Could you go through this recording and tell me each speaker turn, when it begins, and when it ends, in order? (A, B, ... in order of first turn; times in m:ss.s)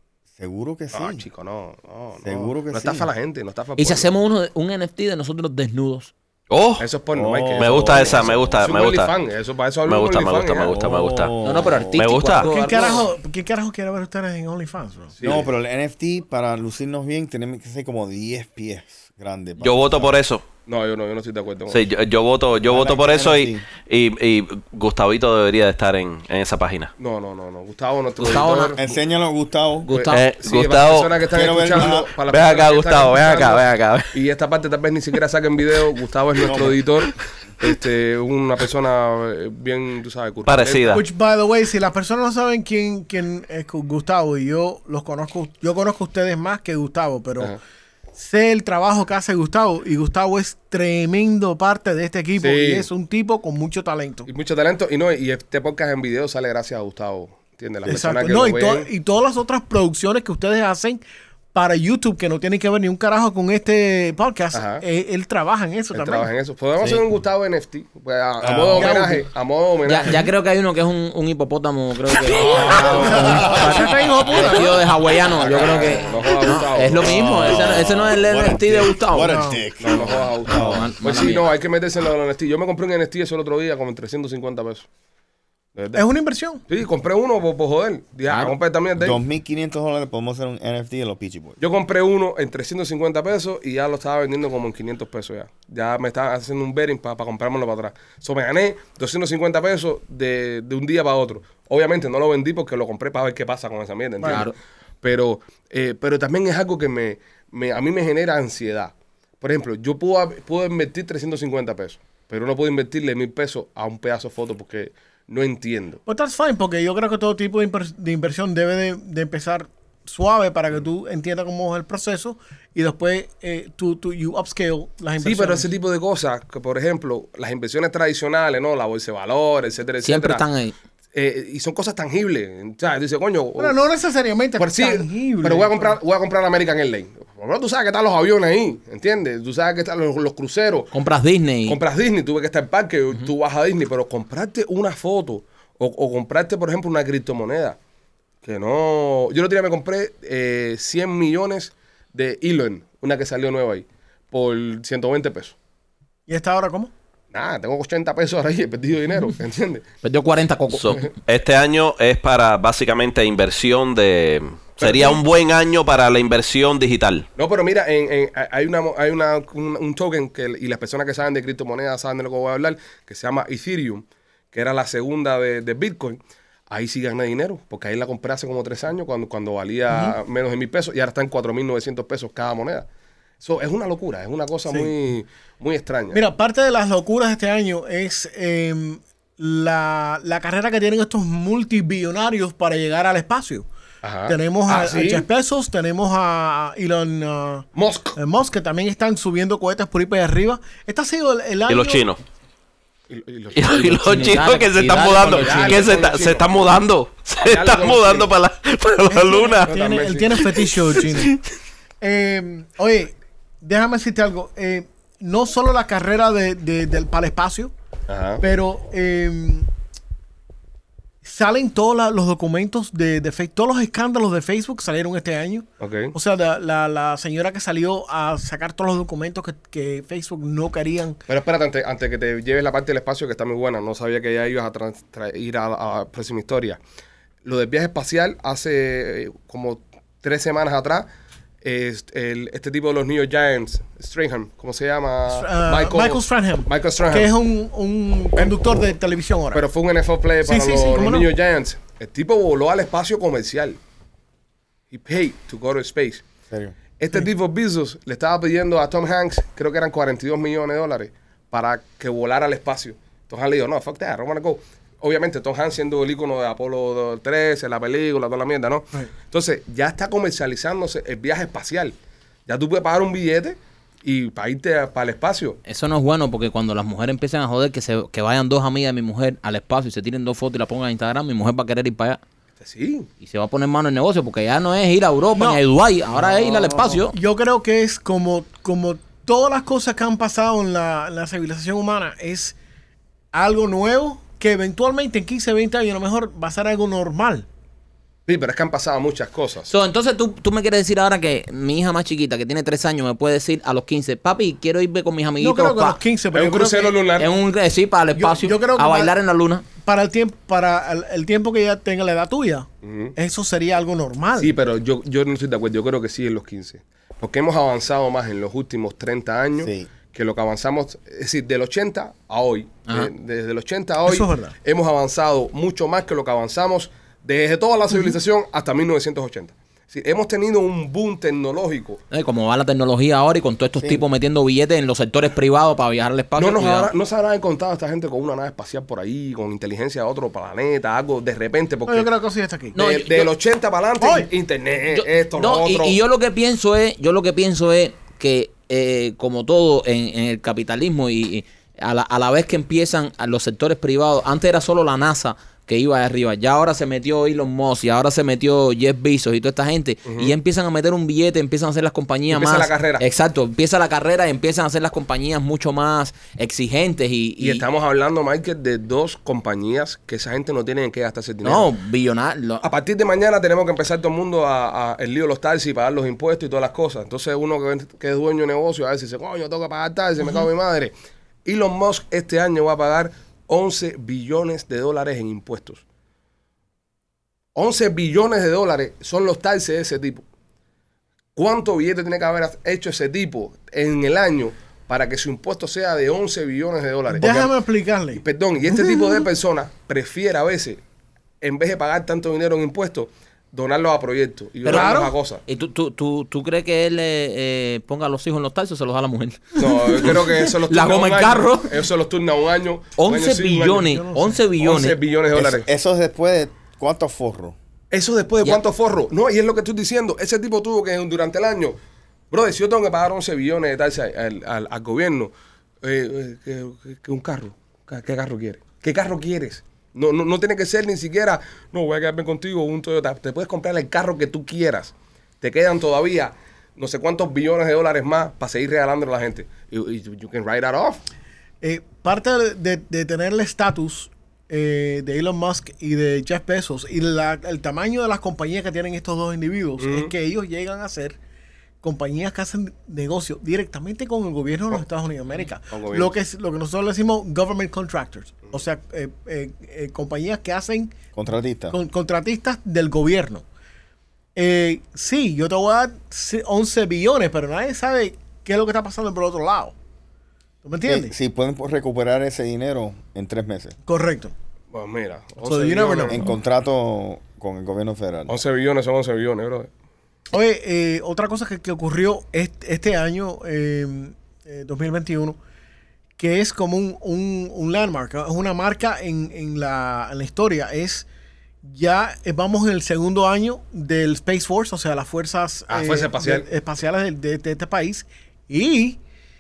0:00.4-0:01.3 A
0:00.9-0:04.2 B
0:02.2-0:03.1 A
0:03.8-0:06.1 C
0:06.5-0:06.9 D
0:06.8-0:10.8 B
0:07.2-0:08.6 A
0:07.6-0:09.1 D
0:09.9-0:11.4 D
0:10.7-0:12.2 A
0:11.4-0:13.1 C
0:12.0-0:12.5 D
0:12.4-0:15.1 E
0:15.2-0:15.5 B
0:15.2-0:20.1 A
0:19.6-0:20.4 D
0:20.7-0:21.8 B
0:21.7-0:26.9 D
0:22.6-0:23.7 A
0:27.0-0:28.8 B
0:28.2-0:28.9 C
0:28.8-0:29.9 A
0:29.8-0:30.2 C
0:29.9-0:41.0 B
0:30.1-0:31.2 D
0:31.3-0:32.1 A
0:31.7-0:34.2 D
0:36.4-0:36.8 A
0:40.5-0:41.0 D
0:40.9-0:47.6 E
0:48.2-0:54.3 E
0:52.4-0:52.9 B
0:54.3-0:58.9 B
0:57.8-1:01.0 E
1:01.5-1:06.3 E
1:04.5-1:04.8 B
1:05.9-1:10.3 B
1:08.4-1:09.0 A
1:08.7-1:09.3 E
1:09.9-1:19.5 C
1:12.4-1:13.5 B
1:12.5-1:14.9 E
1:12.5-1:13.9 A
1:15.4-1:17.3 B
1:17.0-1:20.9 A
1:19.2-1:19.6 E
1:19.8-1:24.9 B
1:20.4-1:21.5 C
1:25.8-1:26.0 B
1:26.0-1:26.6 E
1:26.7-1:29.2 B
1:28.3-1:28.5 C
1:29.0-1:31.6 A
1:31.6-1:56.0 B
1:44.2-1:44.5 C
1:56.1-2:05.7 E
2:05.2-2:10.4 B
2:10.0-2:10.7 C
2:11.1-2:13.8 B
2:13.6-2:16.0 E
2:14.6-2:20.9 B
2:20.9-2:21.8 C
2:21.7-2:27.8 B
2:28.4-2:35.6 B
2:36.3-2:36.9 E
2:37.3-2:39.8 B
2:40.0-2:41.1 C
2:40.7-2:47.3 D
2:44.8-2:45.2 B
2:47.4-2:56.2 B
2:56.7-3:02.9 B
2:59.9-3:00.2 E
3:03.4-3:06.2 B
3:06.1-3:13.7 E
3:14.0-3:15.3 B
3:14.3-3:22.1 E
3:17.8-3:18.2 B
3:21.7-3:22.2 D
3:23.1-3:23.9 B
3:23.6-3:29.7 D
3:23.7-3:25.9 C
3:25.2-3:26.7 B
3:27.4-3:28.3 B
3:29.1-3:31.4 E
3:29.6-3:30.5 B
3:30.7-3:31.4 D
3:32.0-3:37.7 E
3:38.1-3:38.4 B
3:38.4-3:39.7 E
3:41.2-3:51.2 E
3:45.8-3:46.2 B
3:51.3-3:56.8 B
3:57.4-4:01.1 B
4:01.6-4:07.3 B
4:05.3-4:09.6 E
4:08.4-4:08.6 B
4:09.5-4:13.8 B
4:10.4-4:11.3 E
4:14.9-4:16.2 B
4:16.5-4:16.8 A
4:17.0-4:32.0 B
4:32.5-4:35.6 B
4:35.7-4:42.2 C
4:42.6-4:43.1 B
4:43.2-4:47.2 C
4:45.4-4:45.6 E
4:46.7-4:52.6 E
4:53.3-4:57.5 E
4:58.3-4:59.7 B
4:59.7-5:06.0 C
5:05.4-5:07.0 E
5:06.3-5:07.3 B
5:07.2-5:09.7 C
5:08.2-5:09.1 E
5:09.8-5:14.5 E
5:12.8-5:13.2 B
5:14.4-5:32.0 B
5:19.6-5:19.9 A
5:24.1-5:24.5 E
5:32.1-5:36.9 C
5:36.4-5:42.1 B
5:41.9-5:42.8 E
5:42.7-5:43.3 C
5:42.8-5:46.0 B
5:44.0-5:44.3 E
5:44.9-6:07.6 C
6:00.1-6:00.3 B
6:02.3-6:03.0 B
6:07.4-6:11.7 B
6:11.4-6:12.6 C
6:12.6-6:20.9 B
6:21.4-6:25.8 B
6:27.6-6:30.2 B
6:31.4-6:37.5 B
6:37.1-6:39.2 E
6:38.1-6:40.8 B
6:41.4-6:45.4 B
6:44.6-6:51.7 C
6:44.7-6:45.1 E
6:49.6-6:53.9 B
6:53.0-6:55.0 C
6:53.9-6:54.4 E
6:54.6-6:55.7 B
6:55.3-6:57.6 A
6:57.9-7:01.8 B
7:02.3-7:05.3 B
7:05.8-7:21.0 B
7:21.6-7:31.2 E
7:29.8-7:30.1 B
7:31.8-7:40.9 E
7:35.7-7:36.1 B
7:41.1-7:41.8 A
7:41.7-7:43.4 E
7:44.4-7:49.7 E
7:50.6-7:51.1 E
7:50.8-7:53.8 A
7:53.9-7:54.3 E
7:54.7-7:56.3 B
7:55.4-7:56.3 E
7:56.1-7:58.3 A
7:58.3-7:59.7 B
8:00.3-8:05.4 E
8:06.2-8:11.1 E
8:11.6-8:19.0 E
8:15.7-8:16.5 B